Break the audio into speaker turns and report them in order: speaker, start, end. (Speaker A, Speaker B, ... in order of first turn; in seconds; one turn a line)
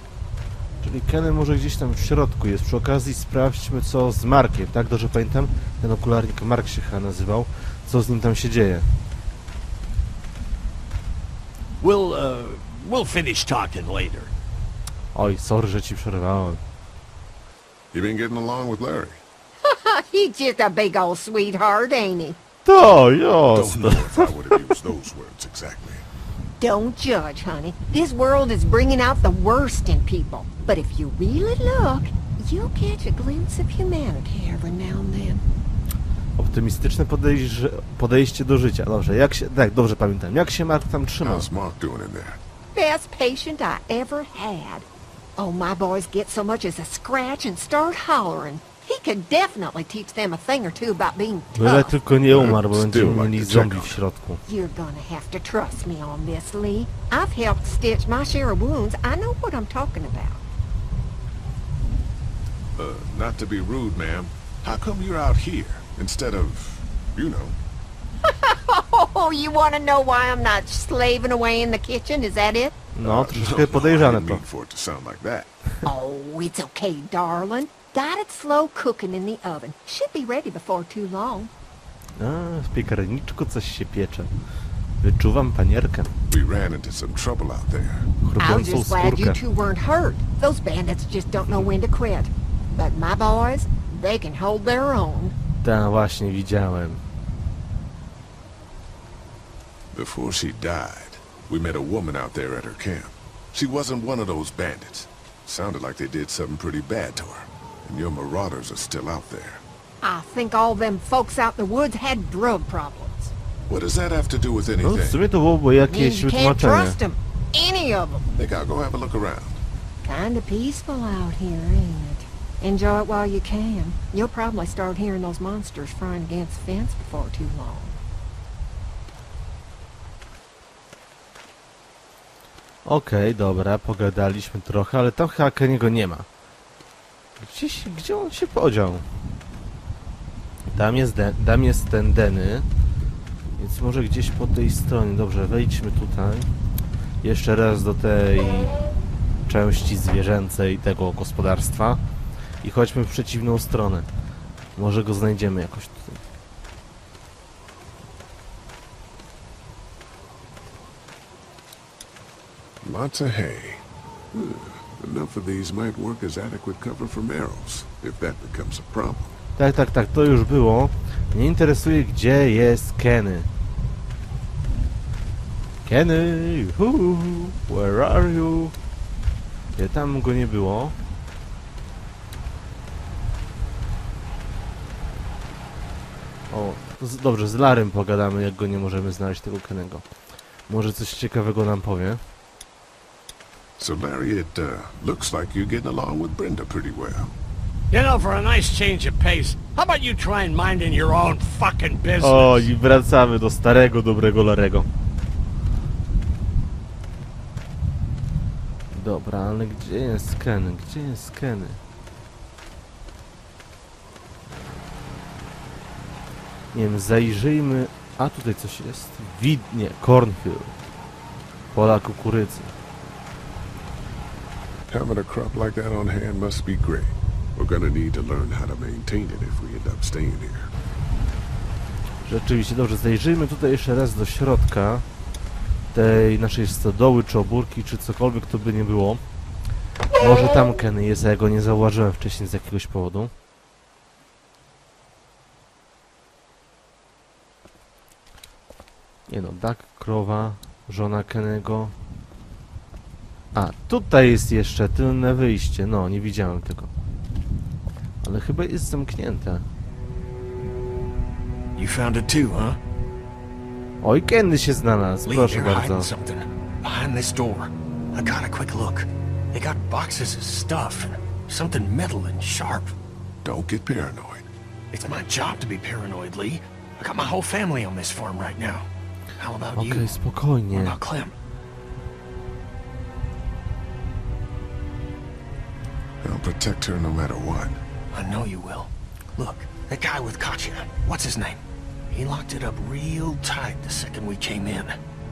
Speaker A: 0.8-8.9
Speaker A: 15.1-16.6
Speaker B: 17.9-19.2
Speaker C: 19.6-22.4
Speaker A: 22.6-24.2
Speaker B: 23.5-26.0
Speaker C: 26.6-35.4
Speaker A: 36.4-41.5
Speaker B: 41.2-42.4
Speaker C: 42.7-51.9
Speaker A: 51.5-54.4
Speaker B: 52.3-54.0
Speaker C: 54.5-60.4
Speaker B: 62.8-67.6
Speaker C: 68.3-72.8
Speaker A: 73.0-74.4
Speaker B: 73.0-75.5
Speaker C: 75.8-81.5
Speaker A: 82.2-84.3
Speaker A: 85.0-86.1
Speaker B: 86.3-88.1
Speaker A: 88.2-89.4
Speaker C: 88.4-95.3
Speaker A: 95.6-97.0
Speaker B: 99.9-109.6
Speaker C: 110.0-113.3
Speaker B: 113.7-115.2
Speaker A: 114.8-117.0
Speaker C: 115.9-118.2
Speaker B: 118.3-119.6
Speaker C: 120.0-128.0
Speaker A: 132.8-136.2
Speaker A: 137.4-139.0
Speaker A: 140.7-142.7
Speaker A: 143.6-146.5
Speaker A: 147.2-148.7
Speaker A: 149.5-152.0
Speaker A: 152.6-154.1
Speaker A: 154.8-156.2
Speaker B: 162.8-169.3
Speaker A: 169.6-173.5
Speaker A: 175.8-178.7
Speaker A: 179.8-180.9
Speaker A: 186.5-190.0
Speaker A: 190.7-192.2
Speaker B: 193.8-197.3
Speaker D: 197.9-202.7
Speaker A: 202.2-204.9
Speaker A: 208.9-211.8
Speaker A: 216.7-220.7
Speaker A: 221.7-222.7
Speaker B: 224.9-230.7
Speaker A: 232.2-235.1
Speaker A: 235.9-239.2
Speaker A: 240.2-243.3
Speaker A: 249.3-251.9
Speaker A: 253.5-256.9
Speaker A: 258.2-259.6
Speaker E: 261.8-262.8
Speaker A: 264.0-266.1
Speaker E: 265.2-272.9
Speaker B: 273.4-274.5
Speaker E: 274.9-280.2
Speaker A: 279.7-280.9
Speaker E: 280.7-281.3
Speaker B: 286.2-287.8
Speaker E: 288.1-295.0